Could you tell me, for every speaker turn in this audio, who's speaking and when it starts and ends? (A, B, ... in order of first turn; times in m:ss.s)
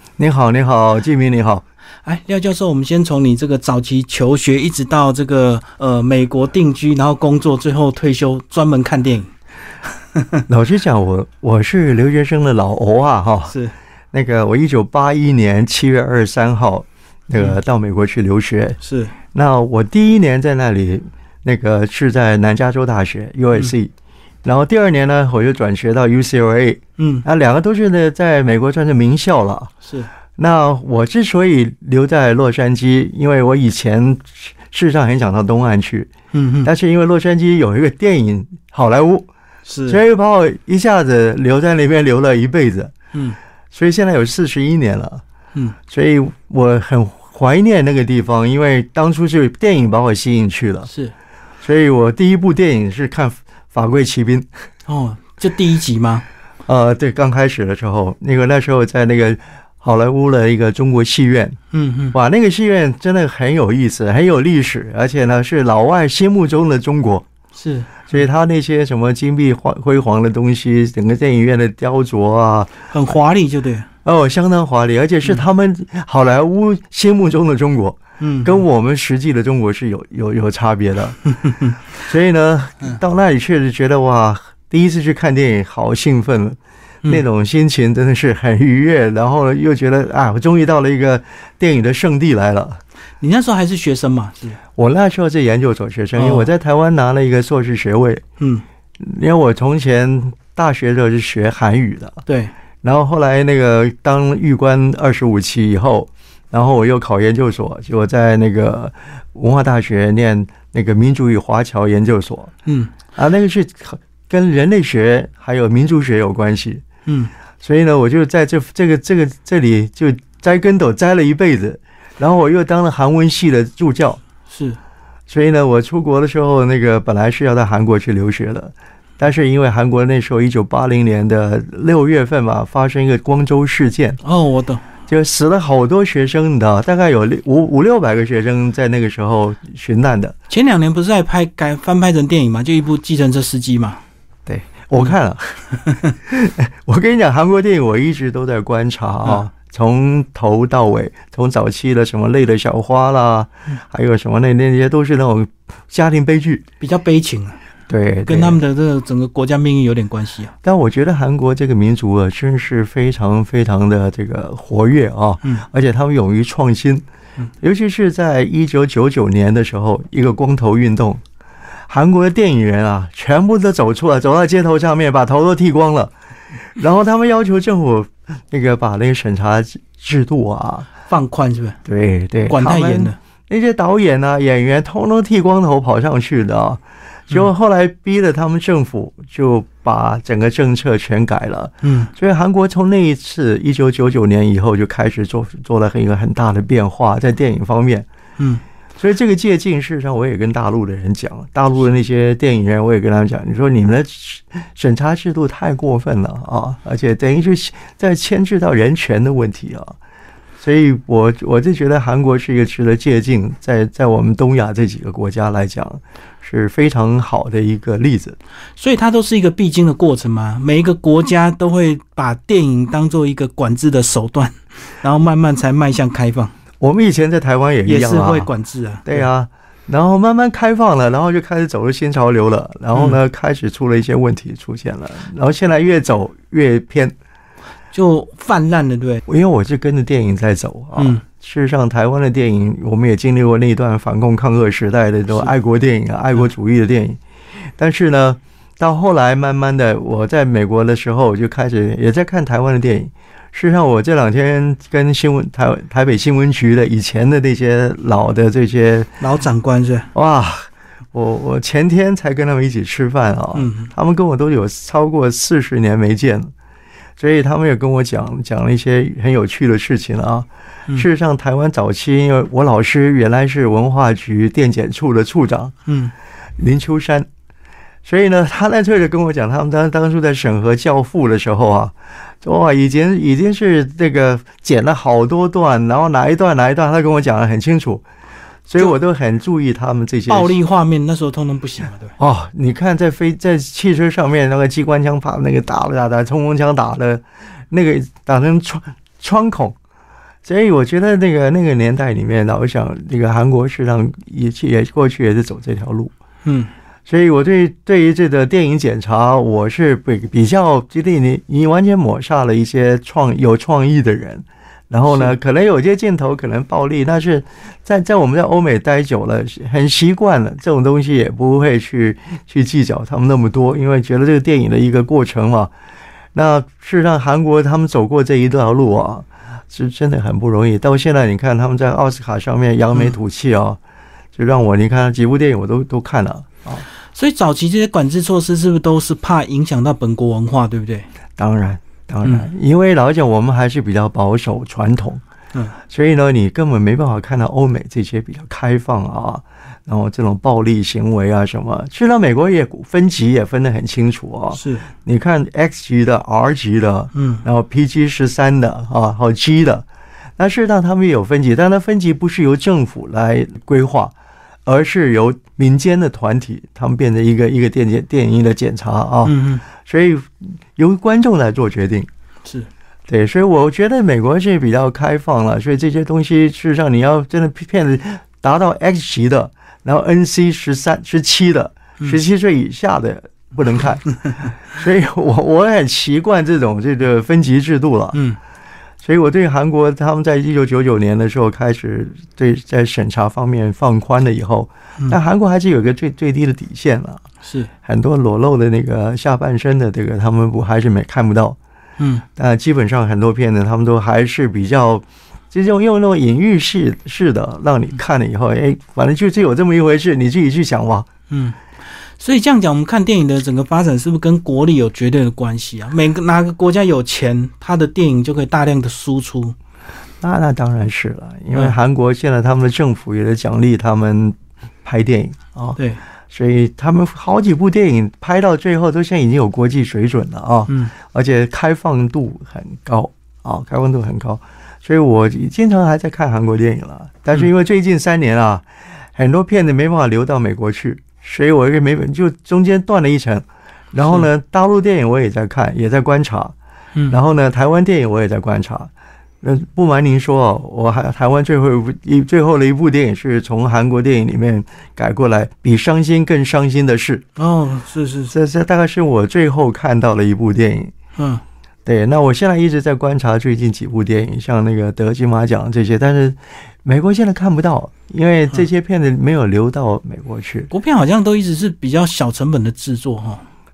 0:00.2-0:01.6 A
0:02.0-0:09.3 B
0:10.1-0:10.4 B
0:10.5-0:13.5 A
0:13.5-0:13.7 B
0:14.1-0:18.8 A
0:18.8-0:19.1 B
0:19.3-0:23.9 A
0:24.4-0:29.7 A
0:27.0-0:27.2 B
0:29.8-0:30.1 B
0:30.4-0:36.1 A
0:36.3-0:36.7 B
0:36.6-0:39.3 A
0:39.6-0:40.0 B
0:39.9-0:42.9 A
0:43.1-0:43.4 B
0:43.7-0:45.2 A
0:45.9-0:50.9 A
0:50.9-0:51.1 B
0:51.6-0:54.5 A
0:54.9-0:56.2 B
0:56.7-1:01.6 A
1:01.7-1:02.2 B
1:02.1-1:07.2 A
1:07.5-1:08.2 B
1:08.1-1:12.7 A
1:12.9-1:13.9 B
1:14.0-1:21.2 A
1:18.2-1:18.6 B
1:21.4-1:21.7 B
1:22.0-1:32.8 A
1:33.2-1:34.6 B
1:34.8-1:38.2 A
1:36.2-1:36.5 B
1:39.0-1:42.2 A
1:42.2-1:42.5 B
1:42.8-1:52.5 A
1:52.6-1:52.9 B
1:53.1-1:56.8 A
1:57.0-1:57.3 B
1:57.6-2:04.2 A
2:04.5-2:04.8 B
2:05.3-2:14.2 A
2:14.2-2:14.8 B
2:15.1-2:20.4 A
2:20.5-2:24.0 B
2:24.4-2:36.6 A
2:25.8-2:26.1 B
2:36.8-2:37.6 B
2:37.9-2:38.6 A
2:38.2-2:40.5 B
2:40.6-2:47.0 A
2:47.6-2:51.2 A
2:51.9-2:56.1 A
2:56.6-3:00.9 A
3:01.0-3:01.8 B
3:01.8-3:18.0 A
3:02.5-3:03.2 B
3:11.8-3:12.1 B
3:18.4-3:18.6 B
3:19.0-3:30.0 A
3:30.6-3:38.4 A
3:38.8-3:46.5 B
3:46.8-3:48.5 A
3:47.8-3:49.3 B
3:49.0-3:57.1 A
3:52.9-3:53.2 B
3:57.9-3:59.2 B
3:59.2-4:07.2 A
4:01.0-4:01.2 B
4:07.8-4:19.1 A
4:19.2-4:20.1 B
4:20.1-4:26.5 A
4:23.5-4:23.9 B
4:27.2-4:35.7 A
4:35.9-4:36.1 B
4:36.6-4:37.3 A
4:38.0-4:48.0 A
4:48.7-4:50.6 A
4:50.3-4:52.1 B
4:52.2-4:59.8 A
5:00.4-5:06.1 A
5:06.4-5:06.7 B
5:07.1-5:25.7 A
5:15.0-5:15.4 B
5:26.3-5:33.8 A
5:34.3-5:36.8 A
5:37.1-5:41.1 B
5:41.4-5:45.2 A
5:45.9-5:59.8 A
5:54.5-5:54.9 B
5:57.1-5:57.4 B
6:00.4-6:04.1 A
6:04.6-6:12.1 A
6:09.2-6:09.6 B
6:13.1-6:28.2 A
6:28.1-6:28.4 B
6:29.0-6:37.2 A
6:37.4-6:37.7 B
6:37.8-6:41.6 A
6:42.0-6:42.2 B
6:42.4-6:51.1 A
6:51.3-6:51.6 B
6:52.2-6:59.6 B
7:00.2-7:05.8 A
7:06.3-7:26.5 A
7:10.7-7:10.9 B
7:27.1-7:28.9 A
7:29.4-7:37.2 A
7:37.4-7:38.3 B
7:38.3-7:40.9 A
7:41.2-7:41.4 B
7:41.8-7:50.7 A
7:50.7-7:53.4 B